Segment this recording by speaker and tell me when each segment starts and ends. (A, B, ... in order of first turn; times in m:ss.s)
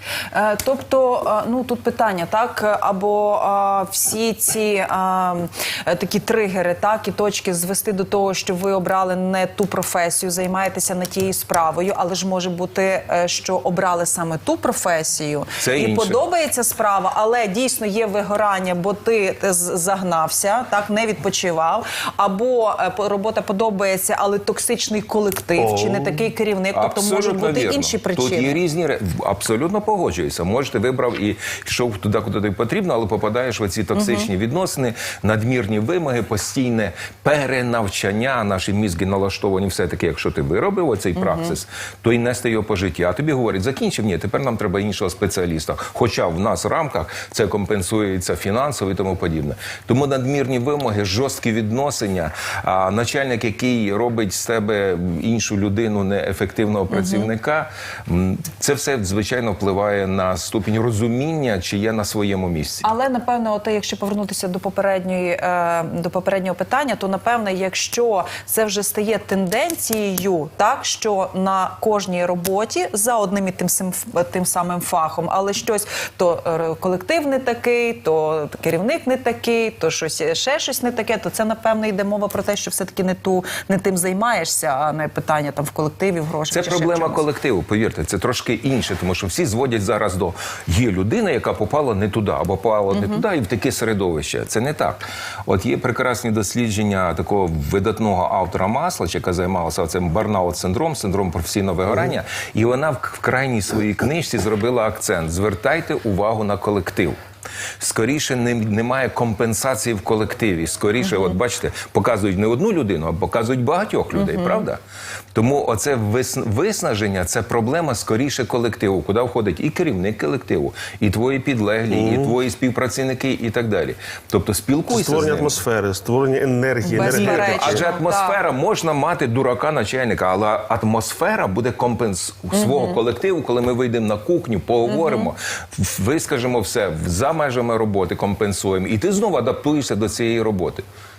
0:00.3-0:28.6 A
0:15.6-0:16.2 B
0:25.6-0:26.3 C
0:26.7-1:02.9 B
0:34.0-0:34.3 A
0:41.2-0:41.6 A
0:56.9-0:57.3 A
1:02.8-1:27.2 A
1:26.5-1:47.2 B
1:32.9-1:33.2 A
1:47.8-1:54.8 B
1:54.2-1:54.6 A
1:55.3-2:05.6 B
2:01.9-2:02.4 C
2:04.9-2:07.8 C
2:06.8-2:08.4 A
2:06.9-2:20.8 B
2:12.6-2:12.9 A
2:14.9-2:15.3 A